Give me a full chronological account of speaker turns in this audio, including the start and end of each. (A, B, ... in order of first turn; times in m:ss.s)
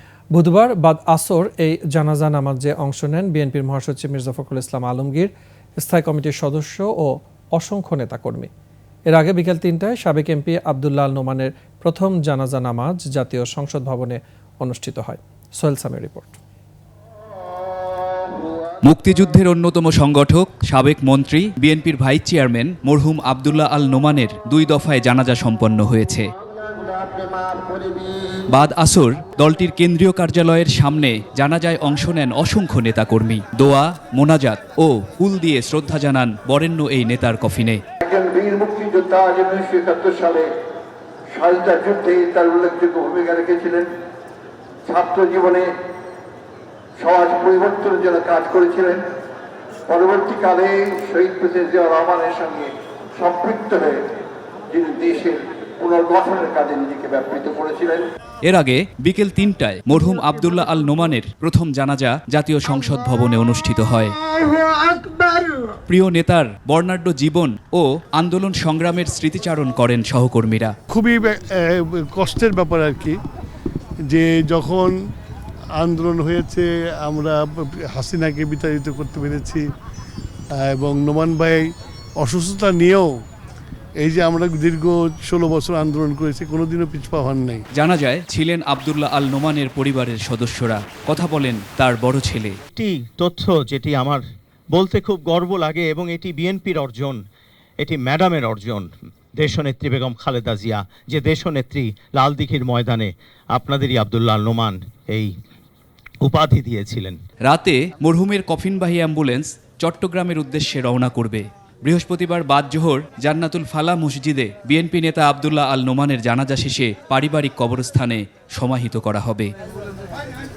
0:00.3-0:08.5 A
0:09.1-0:16.4 A
0:18.0-0:18.7 B
0:18.8-0:26.3 C
0:26.6-0:28.4 B
0:28.5-0:37.8 C
0:38.0-0:40.5 B
0:41.3-0:43.9 B
0:44.8-0:45.7 B
0:47.0-0:49.0 B
0:49.9-0:54.0 B
0:54.7-0:58.0 B
0:58.4-1:04.2 C
1:04.8-1:05.6 B
1:05.9-1:10.7 C
1:10.9-1:13.2 D
1:14.1-1:14.9 D
1:15.8-1:19.6 D
1:20.5-1:23.1 D
1:24.0-1:27.6 D
1:27.8-1:32.6 C
1:32.7-1:37.2 E
1:37.8-1:45.3 E
1:46.2-1:47.2 E
1:47.4-1:59.5 C